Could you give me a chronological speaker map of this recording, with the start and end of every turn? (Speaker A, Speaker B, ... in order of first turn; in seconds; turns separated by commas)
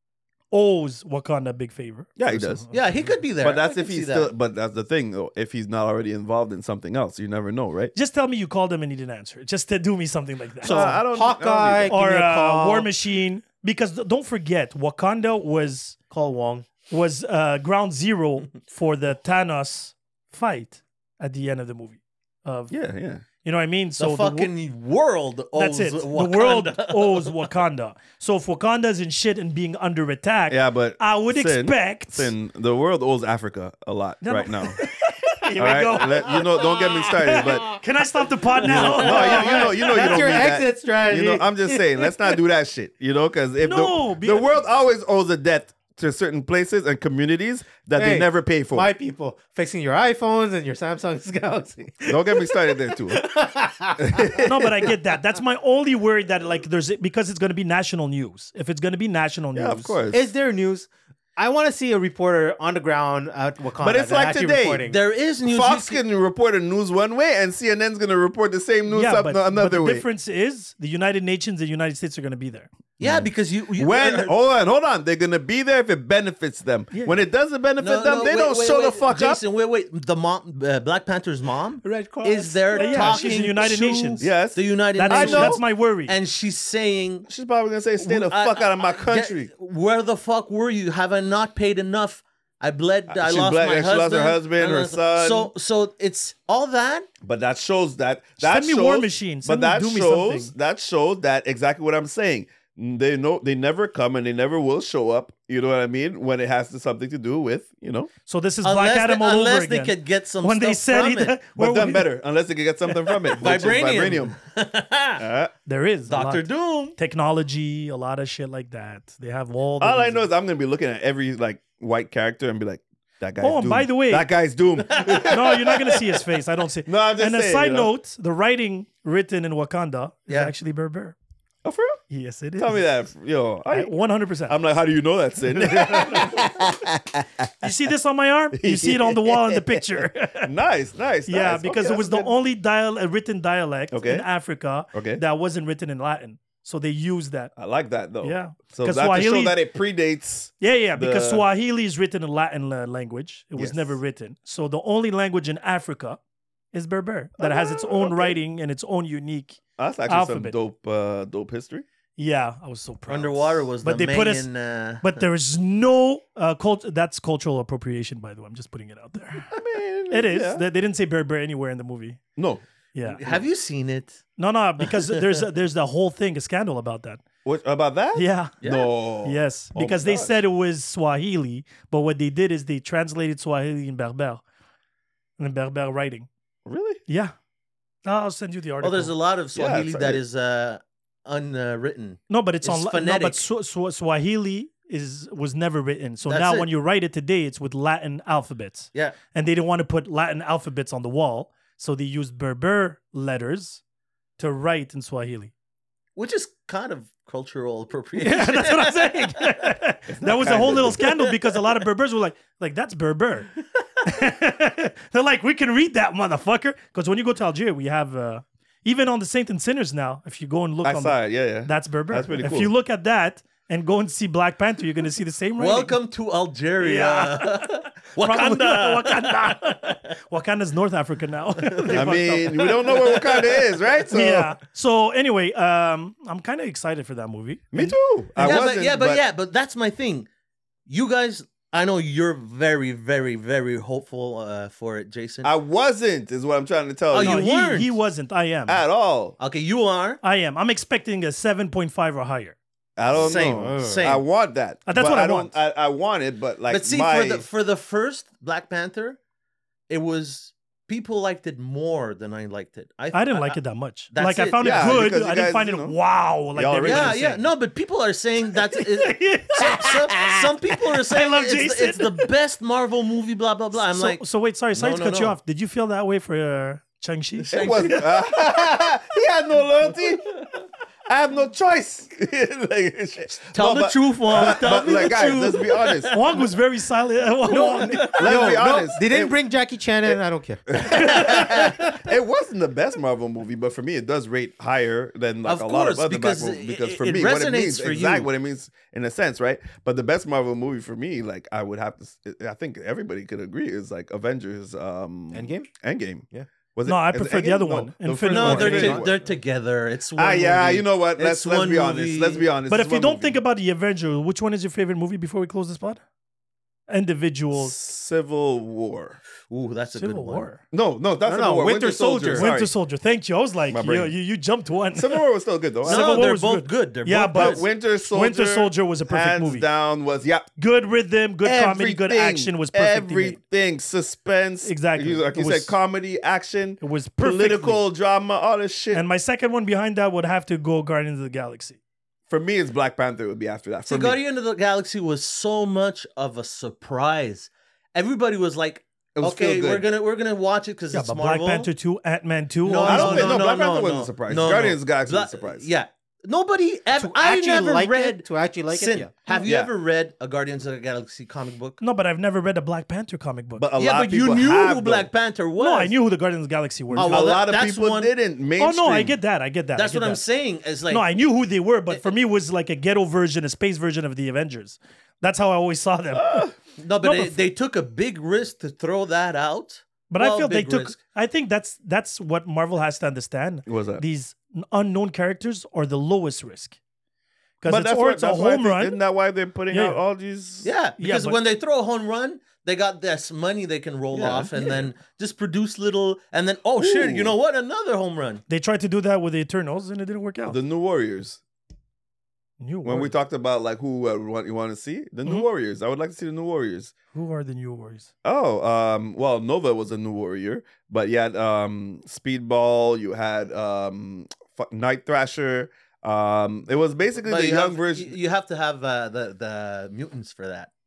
Speaker A: 0.5-2.8, Speaker B: 2.2-2.7, Speaker C: 2.7-4.3, Speaker B: 3.4-7.9, Speaker A: 7.9-11.0, Speaker D: 10.6-12.9, Speaker B: 10.6-12.0, Speaker A: 11.9-15.9, Speaker D: 16.1-16.7, Speaker A: 16.9-22.7, Speaker B: 22.7-23.2, Speaker A: 23.4-24.5, Speaker C: 24.0-27.5, Speaker A: 25.6-32.3, Speaker B: 30.5-34.9, Speaker A: 34.2-40.2, Speaker B: 35.5-37.8, Speaker D: 38.6-42.4, Speaker B: 38.6-48.9, Speaker A: 43.6-44.5, Speaker D: 48.0-54.4, Speaker B: 52.0-53.2, Speaker B: 54.0-54.9, Speaker A: 54.4-60.0, Speaker B: 59.5-60.2, Speaker D: 60.1-65.0, Speaker B: 63.8-64.8, Speaker C: 64.9-66.0, Speaker B: 65.5-70.0, Speaker A: 68.9-72.7, Speaker C: 73.0-74.3, Speaker B: 73.0-79.4, Speaker A: 76.9-77.2, Speaker C: 77.8-87.3, Speaker D: 81.8-83.8, Speaker A: 82.7-84.3, Speaker B: 84.2-85.6, Speaker A: 85.0-86.1, Speaker B: 87.3-89.5, Speaker C: 88.0-97.1, Speaker B: 93.1-95.5, Speaker B: 97.2-108.1, Speaker A: 98.4-100.5, Speaker A: 108.3-112.1, Speaker C: 108.6-111.4, Speaker B: 111.5-114.4, Speaker C: 113.4-115.2, Speaker B: 115.2-115.5, Speaker A: 115.7-120.3, Speaker C: 116.1-117.0, Speaker B: 119.8-126.0, Speaker A: 123.4-124.3, Speaker A: 125.2-131.2, Speaker B: 126.9-127.9, Speaker B: 131.6-132.0, Speaker A: 132.1-132.9, Speaker B: 132.6-133.9, Speaker A: 133.7-134.6, Speaker B: 134.5-137.5, Speaker A: 135.6-136.4, Speaker A: 137.6-140.5, Speaker B: 138.5-142.3, Speaker A: 141.3-147.5, Speaker B: 143.9-144.3, Speaker B: 144.9-145.2, Speaker B: 147.6-151.4, Speaker A: 148.2-149.6, Speaker A: 150.6-156.2, Speaker B: 153.6-154.0, Speaker A: 156.7-160.6, Speaker B: 157.4-158.4, Speaker B: 159.8-161.8, Speaker A: 162.2-164.5, Speaker C: 163.1-165.2, Speaker A: 165.0-169.5, Speaker B: 169.5-170.7, Speaker A: 170.1-172.2, Speaker B: 172.4-172.6, Speaker A: 172.9-173.2, Speaker C: 173.1-174.2, Speaker A: 174.4-177.2, Speaker C: 174.8-175.2, Speaker B: 177.4-180.4, Speaker A: 178.1-178.6, Speaker C: 178.6-178.9, Speaker A: 179.2-184.4, Speaker A: 185.4-186.3, Speaker B: 186.7-187.0, Speaker A: 187.1-187.3, Speaker A: 188.1-189.1, Speaker C: 188.8-193.4, Speaker B: 189.5-190.2, Speaker A: 192.3-203.8, Speaker C: 196.2-196.7, Speaker A: 204.4-205.5, Speaker C: 206.2-209.6, Speaker A: 208.2-213.5, Speaker B: 210.1-211.1, Speaker A: 214.0-225.9, Speaker B: 220.8-222.7, Speaker C: 225.6-229.9, Speaker A: 226.8-233.4, Speaker C: 231.7-231.9, Speaker B: 231.9-234.6, Speaker C: 233.0-233.6, Speaker A: 234.1-238.6, Speaker B: 237.7-239.2, Speaker C: 238.4-240.3, Speaker C: 240.9-245.5, Speaker B: 245.4-247.4, Speaker C: 247.1-247.9, Speaker A: 247.2-248.8, Speaker B: 248.7-249.4, Speaker C: 249.4-250.2, Speaker A: 250.2-252.6, Speaker B: 252.9-257.4, Speaker D: 253.1-254.1, Speaker C: 253.2-254.2, Speaker A: 254.9-255.5, Speaker C: 256.7-259.2, Speaker C: 259.9-263.6, Speaker A: 263.1-267.4, Speaker C: 264.1-264.7, Speaker B: 264.6-265.9, Speaker B: 266.6-267.2, Speaker C: 266.8-275.4, Speaker A: 268.7-272.3, Speaker A: 273.7-277.9, Speaker C: 277.4-278.4, Speaker B: 277.6-280.3, Speaker B: 281.1-286.1, Speaker C: 283.5-286.4, Speaker A: 286.1-288.2, Speaker D: 287.5-291.4, Speaker C: 287.8-288.4, Speaker B: 288.0-289.4, Speaker B: 290.0-309.2, Speaker A: 290.9-291.7, Speaker C: 295.4-298.3, Speaker D: 305.3-305.7, Speaker A: 306.9-309.1, Speaker C: 308.3-312.5, Speaker B: 310.2-313.4, Speaker A: 312.7-316.0, Speaker A: 316.9-317.7, Speaker B: 317.5-319.2, Speaker C: 319.5-320.5, Speaker A: 320.0-320.6, Speaker B: 320.7-322.7, Speaker D: 321.3-322.5, Speaker A: 322.4-325.2, Speaker B: 323.7-324.1, Speaker B: 324.9-326.3, Speaker A: 325.8-329.7, Speaker C: 325.9-327.6, Speaker B: 327.3-330.5, Speaker A: 330.6-333.4, Speaker B: 331.4-339.0, Speaker A: 334.6-335.8, Speaker A: 336.8-337.8, Speaker A: 338.9-341.8, Speaker B: 342.3-344.2, Speaker C: 343.9-351.7, Speaker B: 349.2-349.9, Speaker A: 350.9-353.4, Speaker C: 352.6-361.8, Speaker B: 352.9-355.7, Speaker D: 356.9-359.5, Speaker B: 359.4-359.7, Speaker A: 361.8-363.7, Speaker B: 363.6-365.1, Speaker C: 363.8-365.9, Speaker A: 365.6-367.2, Speaker C: 366.9-368.1, Speaker B: 366.9-369.2, Speaker A: 368.6-370.2, Speaker C: 369.7-371.1, Speaker A: 370.9-376.5, Speaker B: 376.1-376.6, Speaker C: 376.8-381.0, Speaker A: 377.0-377.4, Speaker A: 380.1-386.8, Speaker B: 383.7-384.0, Speaker A: 387.6-389.0, Speaker B: 387.6-390.7, Speaker A: 389.7-390.0, Speaker C: 390.6-398.4, Speaker A: 391.0-391.4, Speaker B: 394.1-394.8, Speaker B: 396.8-397.3, Speaker A: 398.5-400.6, Speaker B: 400.4-401.4, Speaker A: 402.6-403.1, Speaker B: 402.8-406.9, Speaker A: 407.1-408.1, Speaker B: 408.2-418.1, Speaker C: 417.2-420.7